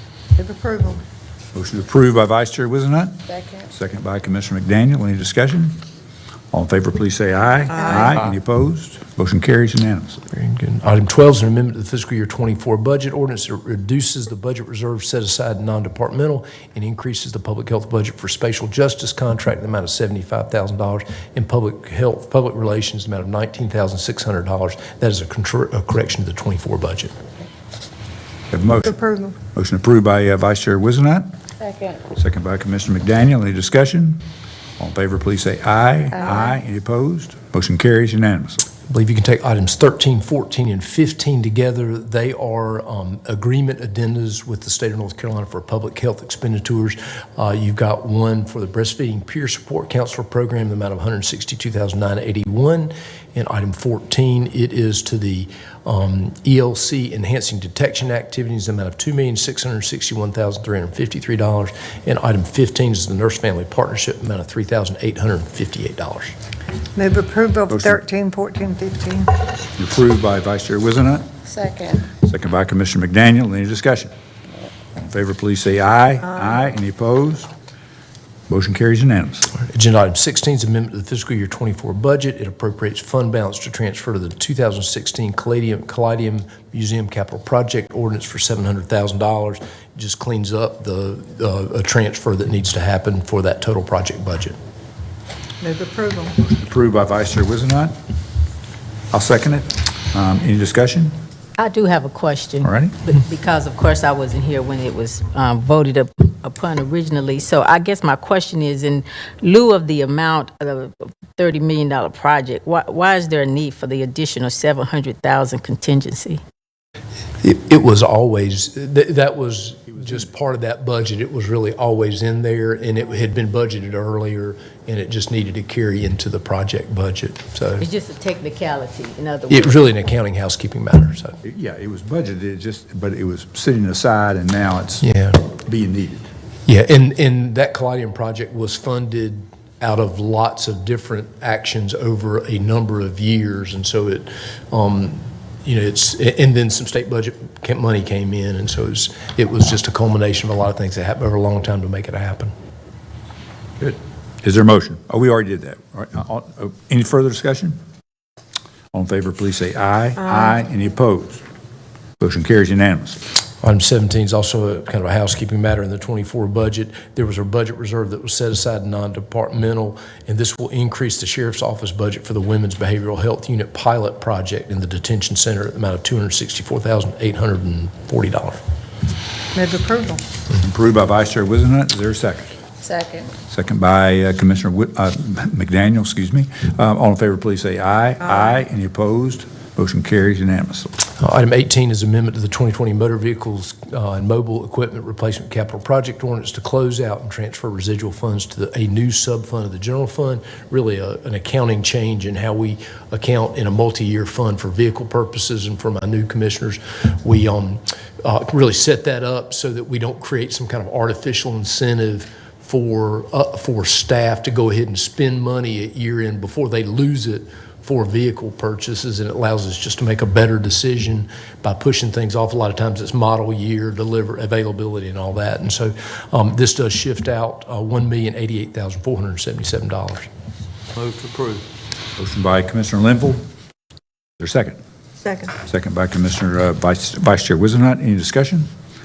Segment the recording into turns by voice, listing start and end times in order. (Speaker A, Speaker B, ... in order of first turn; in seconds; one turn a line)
Speaker A: 0.3-1.0
Speaker B: 1.5-5.8
Speaker C: 3.3-3.6
Speaker B: 6.5-10.2
Speaker A: 7.8-8.2
Speaker D: 10.3-27.1
Speaker B: 28.5-28.9
Speaker A: 28.8-29.4
Speaker B: 29.5-31.3
Speaker C: 31.6-32.0
Speaker B: 32.1-34.2
Speaker B: 34.8-38.6
Speaker D: 38.9-66.3
Speaker A: 66.9-69.3
Speaker B: 67.7-68.0
Speaker B: 69.8-71.3
Speaker C: 71.5-72.1
Speaker B: 72.1-74.1
Speaker B: 75.0-77.5
Speaker B: 78.5-79.5
Speaker D: 79.6-94.5
Speaker A: 95.6-96.4
Speaker B: 96.4-98.0
Speaker B: 99.1-101.1
Speaker E: 101.6-116.4
Speaker B: 102.6-103.0
Speaker D: 117.4-127.9
Speaker E: 127.8-129.9
Speaker D: 129.5-131.4
Speaker B: 131.4-136.3
Speaker D: 135.0-135.4
Speaker D: 136.7-152.5
Speaker B: 153.8-157.8
Speaker B: 158.9-161.4
Speaker B: 162.2-163.2
Speaker D: 163.6-178.6
Speaker A: 179.5-180.2
Speaker B: 180.5-182.6
Speaker C: 182.8-183.3
Speaker B: 183.5-191.0
Speaker D: 191.2-230.3
Speaker B: 232.2-233.4
Speaker B: 234.4-234.8
Speaker A: 235.2-235.5
Speaker B: 235.6-238.7